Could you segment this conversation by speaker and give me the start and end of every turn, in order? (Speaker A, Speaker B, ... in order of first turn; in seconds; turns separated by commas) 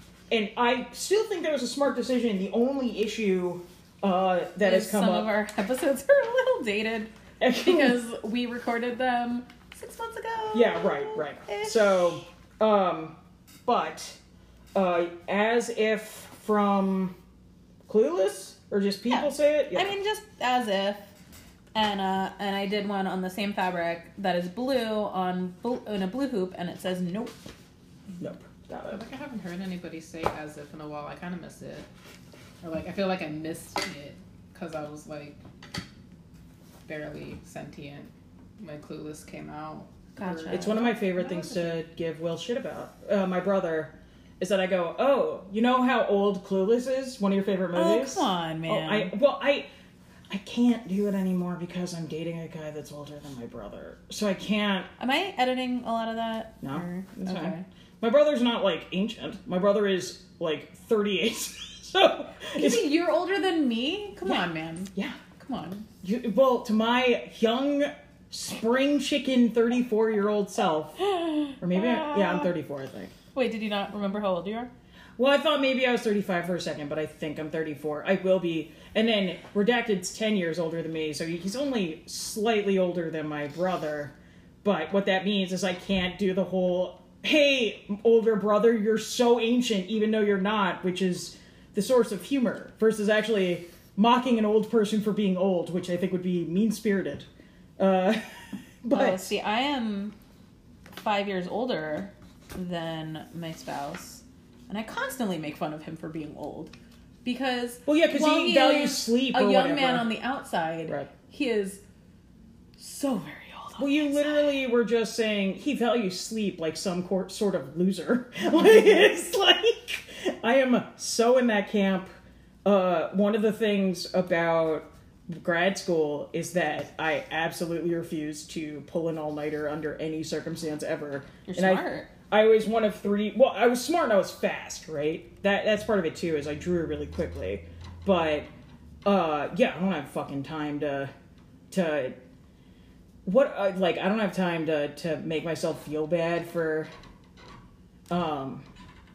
Speaker A: 0.3-5.3, Speaker B: 4.6-11.8, Speaker A: 7.4-8.0, Speaker A: 10.5-14.2, Speaker A: 14.8-17.1, Speaker A: 17.9-19.9, Speaker B: 19.1-21.1, Speaker B: 21.8-27.4, Speaker A: 28.2-29.0, Speaker C: 28.9-31.9, Speaker C: 32.6-35.4, Speaker C: 36.9-40.1, Speaker B: 40.1-41.6, Speaker A: 40.2-49.7, Speaker B: 47.8-49.1, Speaker A: 50.3-54.9, Speaker B: 55.0-57.6, Speaker A: 56.6-62.9, Speaker B: 62.5-65.9, Speaker A: 64.2-65.2, Speaker A: 66.0-71.0, Speaker B: 71.0-72.5, Speaker A: 71.6-73.1, Speaker B: 73.3-74.7, Speaker A: 75.2-99.3, Speaker B: 98.9-100.2, Speaker B: 101.0-111.8, Speaker A: 107.9-110.1, Speaker B: 112.8-114.4, Speaker A: 113.8-122.1, Speaker A: 122.7-138.5, Speaker B: 131.5-132.1, Speaker A: 139.1-141.1, Speaker A: 141.7-142.2, Speaker A: 143.2-146.9, Speaker A: 148.1-148.7